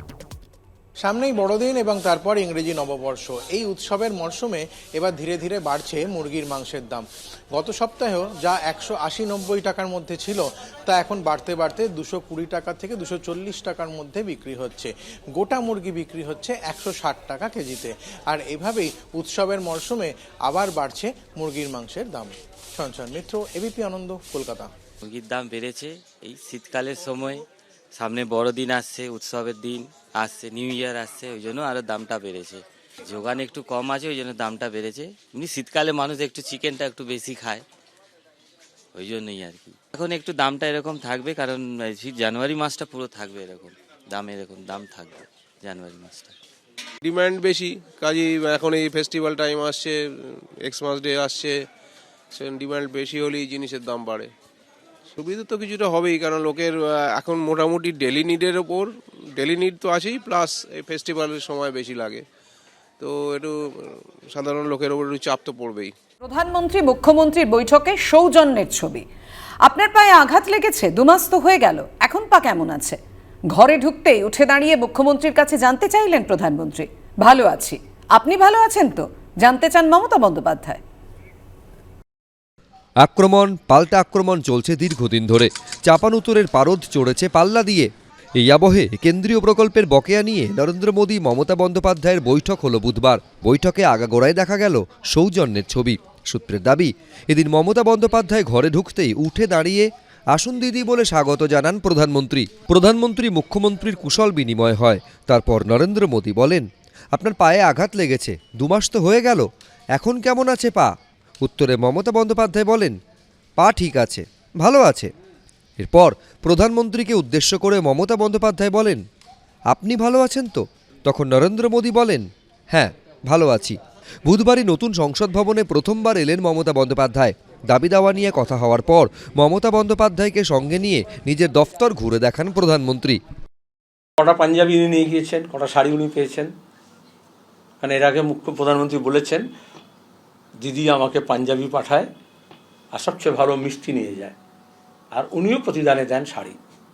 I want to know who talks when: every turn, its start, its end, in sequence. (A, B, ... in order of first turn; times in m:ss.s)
0:01.0-0:24.7 A
0:25.0-0:37.6 B
0:38.9-0:46.3 B
0:47.0-0:51.6 C
0:52.3-0:54.3 C
0:55.1-1:02.2 C
1:03.0-1:05.9 C
1:06.2-1:09.0 D
1:09.6-1:13.0 D
1:13.5-1:20.8 D
1:23.0-1:52.9 E
1:53.6-1:55.1 E
1:55.8-1:59.0 E
1:59.7-2:13.2 E
2:14.2-2:16.5 F
2:17.8-2:19.4 F
2:20.6-2:22.1 F
2:22.9-2:24.3 F
2:25.1-2:26.6 F